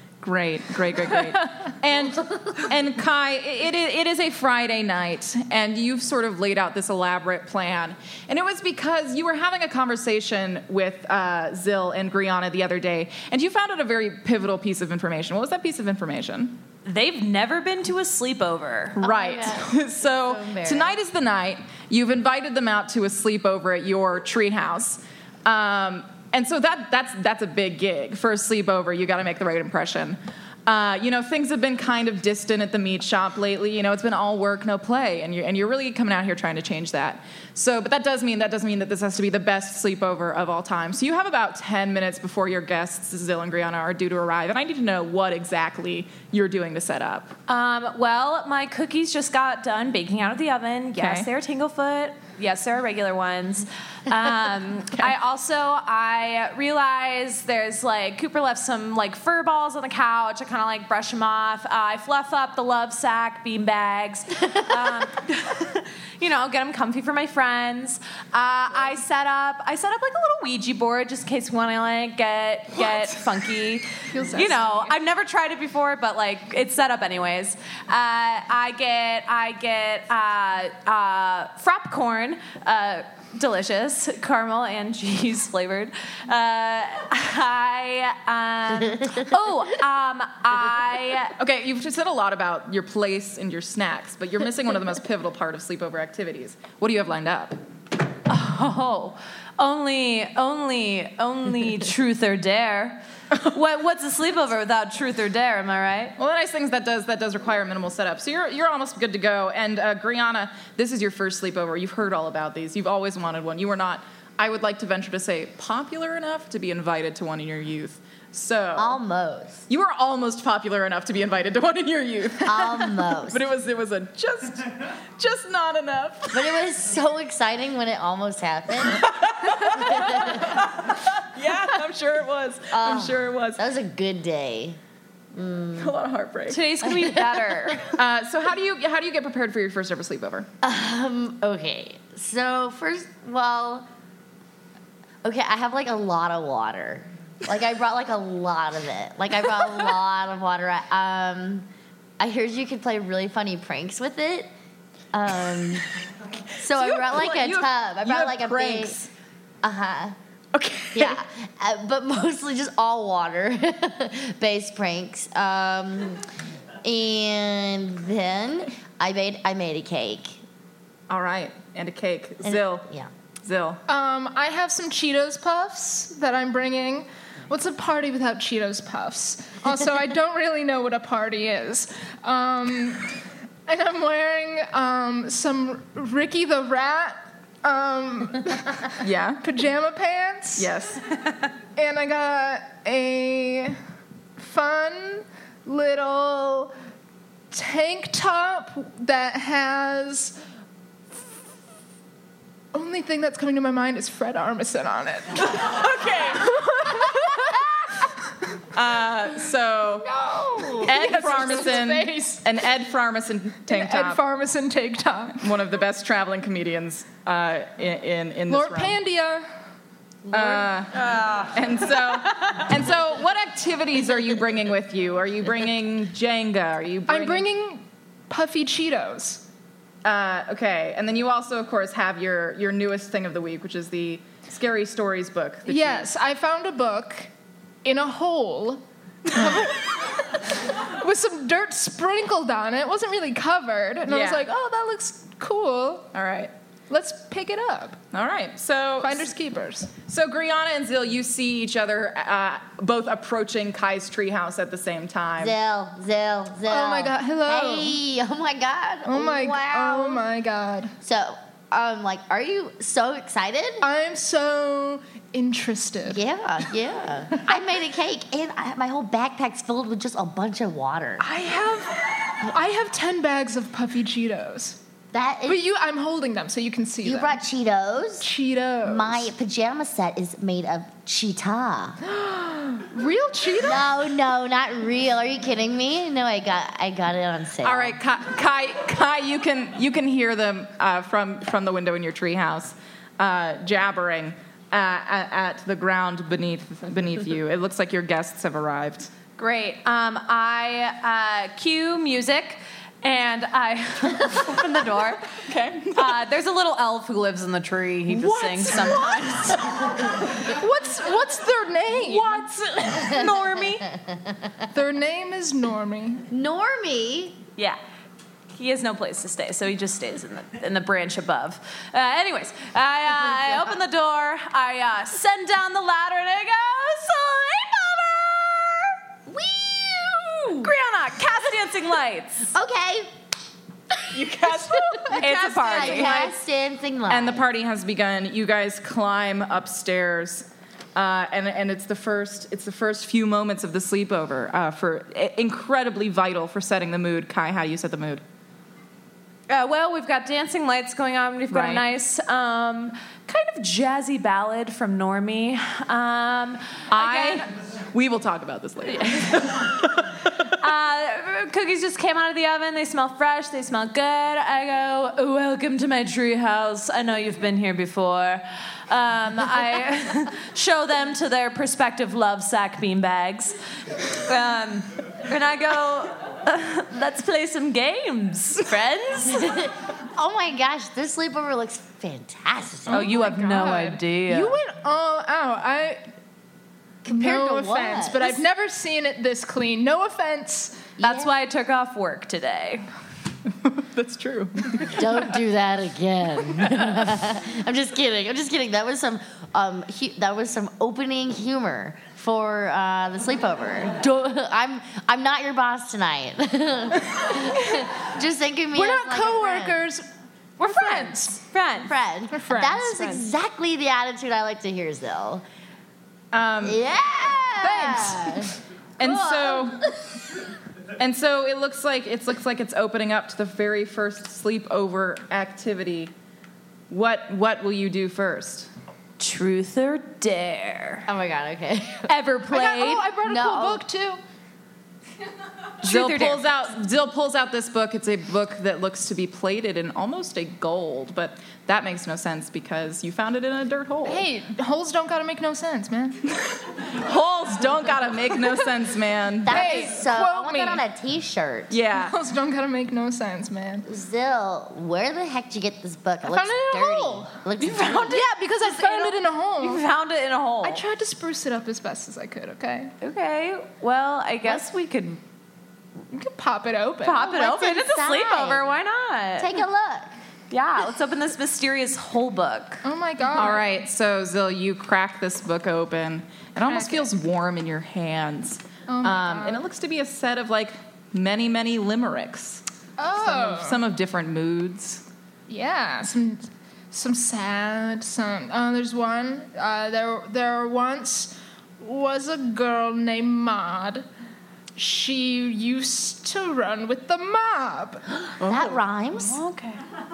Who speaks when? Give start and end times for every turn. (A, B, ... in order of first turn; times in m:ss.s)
0:00.2-0:16.6 A
0:16.8-0:19.0 B
0:19.0-0:47.3 A
0:19.0-0:21.0 C
0:47.5-1:31.4 B
0:51.0-0:51.3 A
1:14.1-1:14.9 D
1:31.4-1:37.6 A
1:38.3-1:46.1 B
1:46.2-1:59.0 A
1:58.8-1:59.6 C
1:59.7-2:06.6 A
2:02.4-2:03.4 C
2:06.3-2:10.6 C
2:08.8-2:13.6 A
2:12.7-2:14.8 C
2:15.3-2:15.9 C
2:15.8-2:16.7 A
2:16.5-2:17.8 B
2:16.8-2:17.8 C
2:17.9-2:20.5 A
2:20.6-2:23.8 C
2:25.2-2:31.7 C
2:32.2-2:34.5 C
2:35.1-2:35.8 C
2:36.6-2:38.9 C
2:36.7-2:39.1 A
2:39.6-2:40.2 C
2:40.5-2:41.2 A
2:40.9-2:46.2 C
2:46.8-2:50.4 C
2:51.1-2:52.8 A
2:52.4-2:53.1 C
2:53.4-2:53.8 A
2:53.9-3:03.1 D
3:03.6-3:10.7 D
3:09.0-3:09.4 A
3:10.6-3:11.1 A
3:11.8-3:13.8 D
3:14.4-3:16.7 D
3:17.5-3:20.4 D
3:22.7-3:25.8 D
3:25.4-3:27.6 A
3:26.4-3:27.6 D
3:28.7-3:30.1 A
3:30.0-3:32.4 D
3:30.8-3:34.2 A
3:33.7-3:35.4 D
3:35.4-3:39.0 A
3:38.5-3:39.5 D
3:40.3-3:47.5 A
3:40.3-3:40.6 D
3:47.1-3:49.4 D
3:50.0-3:56.1 A
3:55.7-3:57.3 D
3:57.8-4:06.1 D
4:04.1-4:04.5 A
4:06.1-4:06.5 A
4:06.9-4:08.0 D
4:08.1-4:09.3 A
4:09.0-4:09.9 D
4:10.0-4:15.5 A
4:15.4-4:20.2 C
4:16.7-4:18.0 D
4:19.0-4:20.9 D
4:21.0-4:23.8 C
4:23.8-4:26.2 D
4:26.1-4:31.2 C
4:31.2-4:34.8 D
4:35.1-4:35.6 C
4:35.5-4:37.4 D
4:37.0-4:38.3 C
4:38.2-4:39.3 D
4:38.8-4:42.0 C
4:42.0-4:43.9 D
4:43.6-4:48.0 C
4:47.6-4:59.1 A
4:59.4-5:05.3 B
5:05.4-5:06.2 A
5:05.9-5:09.6 B
5:08.1-5:10.0 A
5:10.4-5:12.4 D
5:11.9-5:13.8 A
5:13.0-5:13.2 C
5:14.7-5:16.2 D
5:16.3-5:17.4 C
5:18.5-5:28.9 B
5:29.3-5:30.7 C
5:30.6-5:32.5 B
5:32.5-5:33.1 C
5:34.1-5:36.2 A
5:34.7-5:37.4 C
5:35.1-5:36.3 B
5:37.1-5:48.2 A
5:49.5-5:57.4 B
5:51.5-5:51.8 A
5:56.9-6:00.2 A
6:00.4-6:13.6 B
6:14.1-6:19.6 B
6:19.3-6:23.1 C
6:22.9-6:24.6 B
6:22.9-6:26.0 D
6:27.0-6:30.9 D
6:27.0-6:28.4 C
6:31.0-6:31.3 C
6:31.0-6:32.8 B
6:33.6-6:35.3 A
6:34.8-6:49.8 C
6:48.7-6:50.0 D
6:50.6-6:51.4 D
6:50.6-6:51.9 B
6:51.8-6:55.4 C
6:52.3-6:53.2 D
6:56.3-6:56.8 A
6:56.6-7:00.2 C
6:57.6-6:58.5 D
6:59.0-6:59.8 A
7:01.0-7:06.1 A
7:06.9-7:08.7 A
7:09.2-7:11.1 B
7:11.1-7:12.1 C
7:12.0-7:13.1 B
7:12.5-7:14.2 D
7:13.2-7:13.8 C
7:15.8-7:16.4 B
7:15.8-7:24.3 A
7:24.0-7:26.2 D
7:26.5-7:29.8 A
7:29.4-7:31.7 C
7:29.5-7:30.8 D
7:31.7-7:32.2 A
7:31.9-7:33.8 D
7:33.8-7:38.2 C
7:36.2-7:37.3 D
7:37.6-7:40.8 B
7:38.1-7:39.8 D
7:40.6-7:42.9 D
7:43.0-7:45.2 B
7:46.1-7:47.3 D
7:47.0-7:49.5 B
7:47.2-7:48.7 C
7:49.4-7:50.1 C
7:50.5-7:52.8 B
7:52.8-7:53.7 D
7:53.3-8:02.6 A
7:56.7-7:57.1 D
7:58.9-7:59.6 D
8:03.0-8:03.8 D
8:03.2-8:05.0 A
8:05.5-8:14.0 D
8:14.8-8:18.0 D
8:18.4-8:19.4 C
8:18.4-8:18.8 A
8:19.2-8:19.8 B